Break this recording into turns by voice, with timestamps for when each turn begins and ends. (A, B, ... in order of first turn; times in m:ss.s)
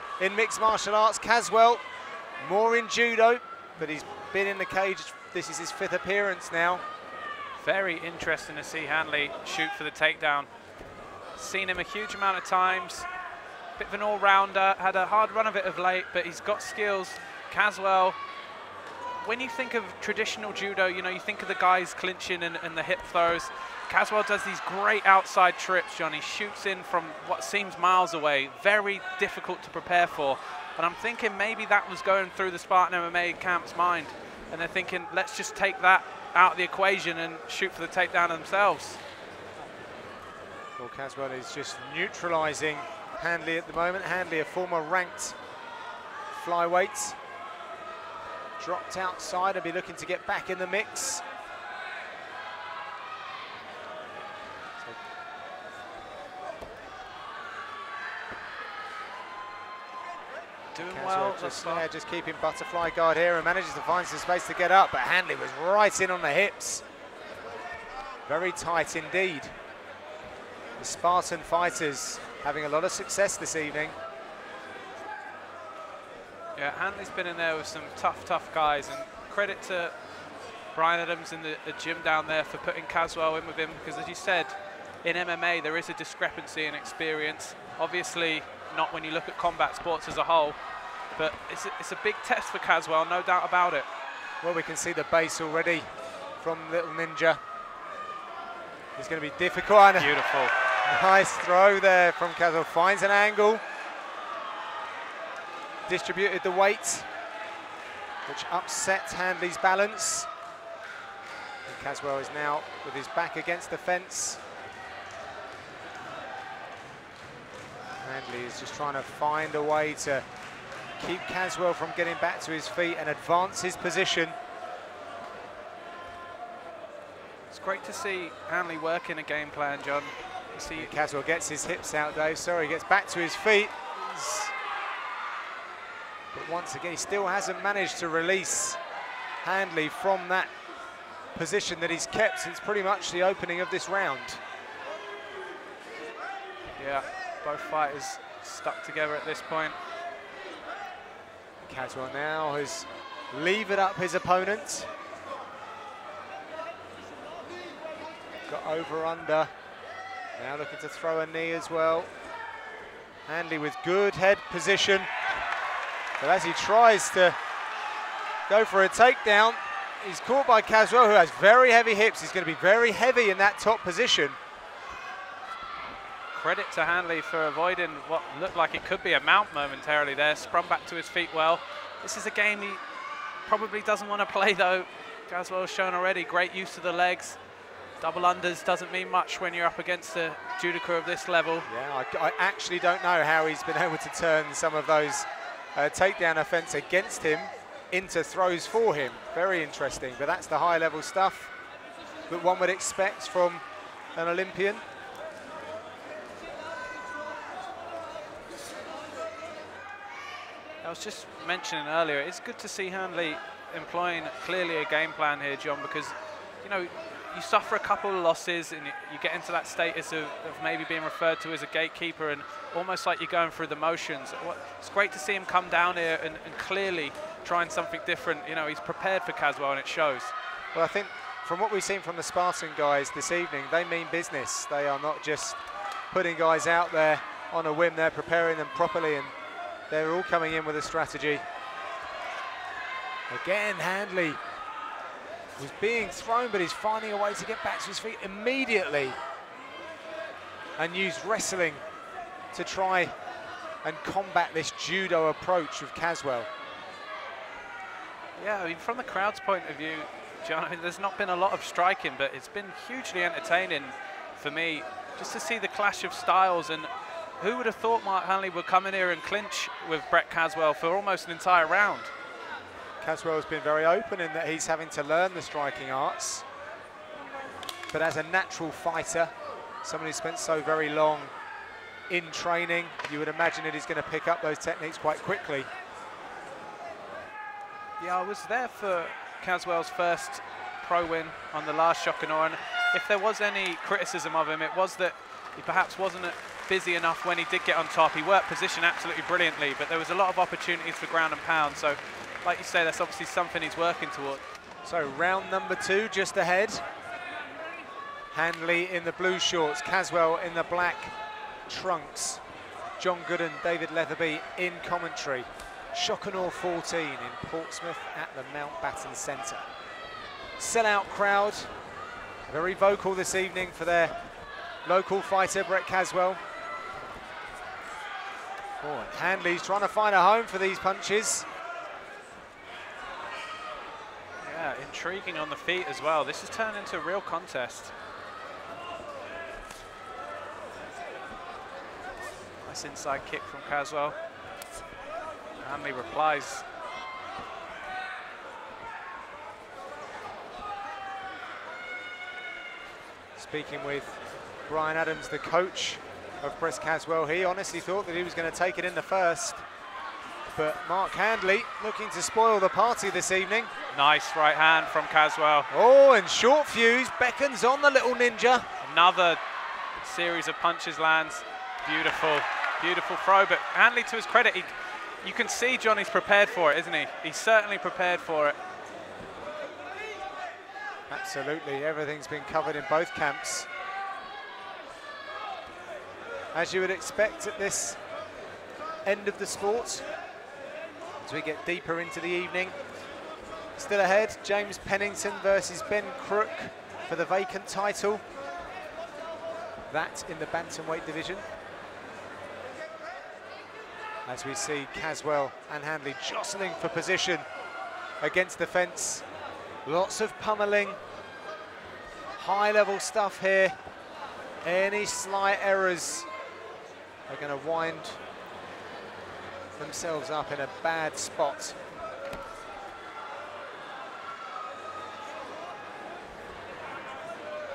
0:00.2-0:01.8 A
0:02.4-0:06.8 A
0:07.6-0:10.5 B
0:11.4-0:13.1 B
0:13.8-0:18.2 B
0:19.2-0:39.0 B
0:40.8-0:45.4 A
0:46.3-0:47.2 A
0:48.6-0:51.2 A
1:00.7-1:01.9 B
1:00.8-1:06.8 A
1:08.2-1:09.5 A
1:10.8-1:14.0 A
1:16.6-1:19.9 B
1:20.7-1:30.6 B
1:31.1-1:33.9 B
1:34.4-1:37.4 A
1:39.0-1:43.6 A
1:40.0-1:40.5 B
1:45.9-1:47.1 A
1:48.2-1:50.3 A
1:51.6-1:54.4 A
1:58.0-2:00.2 A
2:01.0-2:04.4 A
2:07.5-2:10.9 B
2:10.7-2:14.5 A
2:16.3-2:18.8 A
2:19.4-2:20.5 A
2:21.3-2:24.4 A
2:26.8-2:29.8 B
2:31.6-2:34.9 A
2:38.5-2:39.5 A
2:40.4-2:42.1 A
2:43.2-2:45.1 A
2:46.2-2:47.4 A
2:48.5-2:54.4 A
2:56.3-3:02.8 B
3:03.4-3:07.4 B
3:08.0-3:11.7 B
3:11.6-3:21.5 A
3:22.3-3:23.6 A
3:24.1-3:24.8 A
3:30.8-3:50.3 B
3:50.7-3:55.6 A
3:56.1-3:59.3 A
3:59.9-4:01.4 A
4:03.3-4:04.4 A
4:05.6-4:09.2 A
4:10.8-4:11.8 A
4:12.5-4:13.1 A
4:13.8-4:16.5 A
4:18.4-4:32.1 B
4:33.0-4:36.4 A
4:37.9-4:39.3 A
4:39.8-4:41.3 A
4:42.1-4:45.7 A
4:48.0-5:04.4 B
5:04.8-5:06.8 A
5:08.3-5:11.1 A
5:11.7-5:12.4 A
5:13.0-5:19.6 A
5:20.6-5:21.7 A
5:22.5-5:24.1 A
5:24.8-5:26.4 A
5:28.8-5:31.5 A
5:34.4-5:37.9 B
5:42.6-5:44.1 B
5:45.6-5:46.6 B
5:53.4-5:59.6 A
6:00.5-6:03.7 A
6:03.9-6:05.7 B
6:05.7-6:08.7 A
6:08.8-6:09.4 B
6:10.0-6:18.6 B
6:21.1-6:23.7 A
6:26.5-6:28.0 A
6:29.0-6:30.0 A
6:31.2-6:32.8 A
6:33.8-6:38.2 A
6:39.9-6:41.4 A
6:44.2-6:47.4 A
6:48.2-6:49.2 A
6:49.8-6:51.0 A
6:52.4-6:53.7 A
6:54.6-6:56.3 A
6:57.3-6:58.2 A
6:59.8-7:01.8 A